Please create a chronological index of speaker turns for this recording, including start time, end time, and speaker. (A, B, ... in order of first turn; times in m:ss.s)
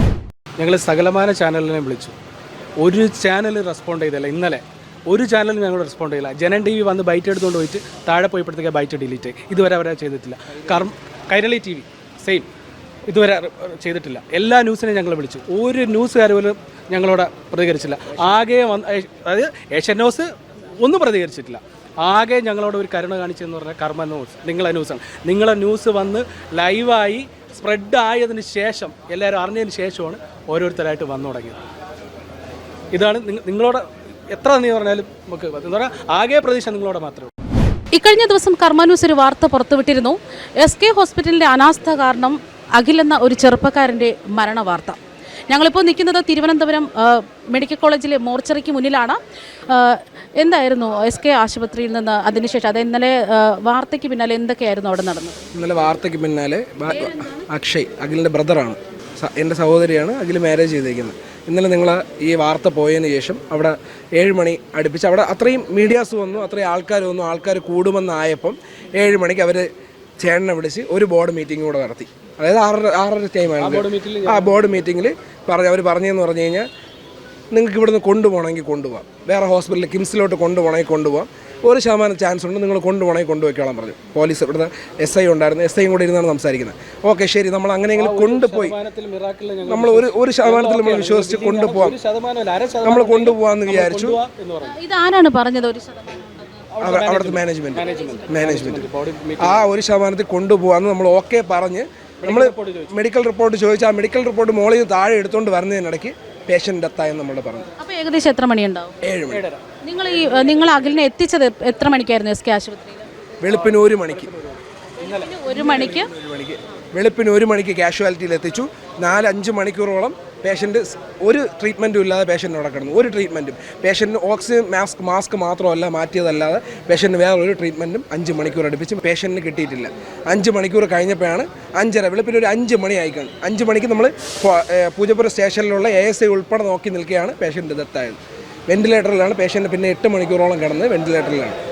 0:00.6-0:02.1 A
0:02.8-0:12.5 A
0:13.1-0:31.6 A
0:18.2-0:18.4 B
0:32.9-0:37.3 A
0:37.9-0:45.0 C
0:45.5-0:55.4 C
0:55.5-1:09.7 B
0:56.9-0:57.4 C
1:10.2-1:16.6 B
1:13.6-1:14.6 A
1:17.5-1:28.8 B
1:27.9-1:34.7 A
1:29.6-1:32.0 B
1:32.8-1:34.2 B
1:34.6-1:36.6 C
1:36.7-1:39.6 A
1:36.8-1:38.9 B
1:37.8-1:38.4 C
1:39.4-1:47.7 B
1:42.2-1:42.9 A
1:47.8-1:49.0 C
1:49.0-1:49.4 B
1:49.3-1:50.9 A
1:49.8-1:53.0 C
1:53.4-1:54.3 B
1:53.5-1:54.4 A
1:55.0-1:55.4 A
1:55.0-1:56.1 C
1:55.4-2:18.2 B
2:18.7-2:21.6 B